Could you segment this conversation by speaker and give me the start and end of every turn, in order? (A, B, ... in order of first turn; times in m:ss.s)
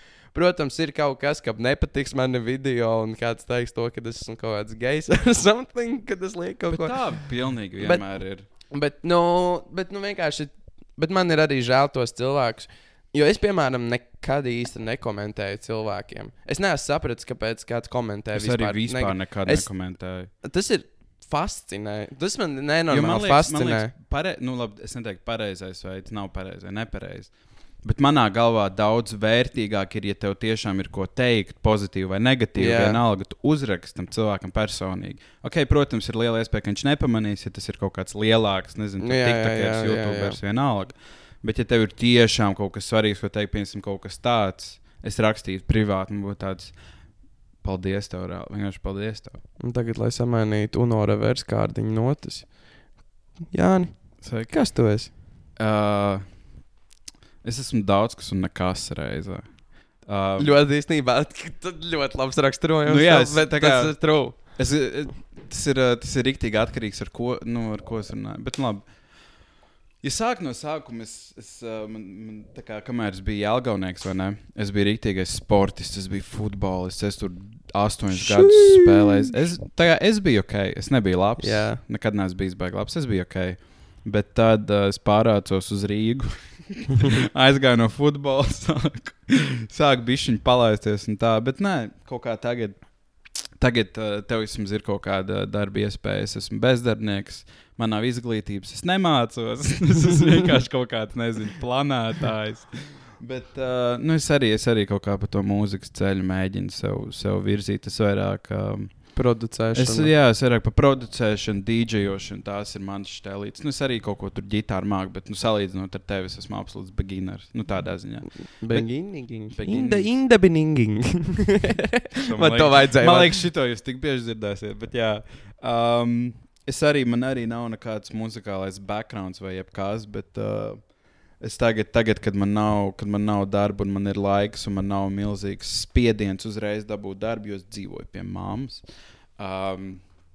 0:00.3-0:07.2 A
0:06.7-0:08.4 B
0:07.8-0:08.0 A
0:08.7-0:23.9 A
0:18.3-0:20.3 B
0:22.9-0:46.8 B
0:32.6-0:33.0 A
0:39.0-0:40.4 A
0:47.5-0:49.4 B
0:49.6-0:52.6 A
0:53.4-0:55.1 A
0:54.2-0:54.6 B
0:55.6-0:56.5 B
0:57.4-1:00.6 B
1:00.4-1:04.4 A
1:02.8-1:09.0 B
1:10.0-2:00.2 B
1:18.1-1:19.3 A
1:21.4-1:21.8 A
1:49.1-1:50.1 A
1:58.4-2:03.5 A
2:02.2-2:20.2 B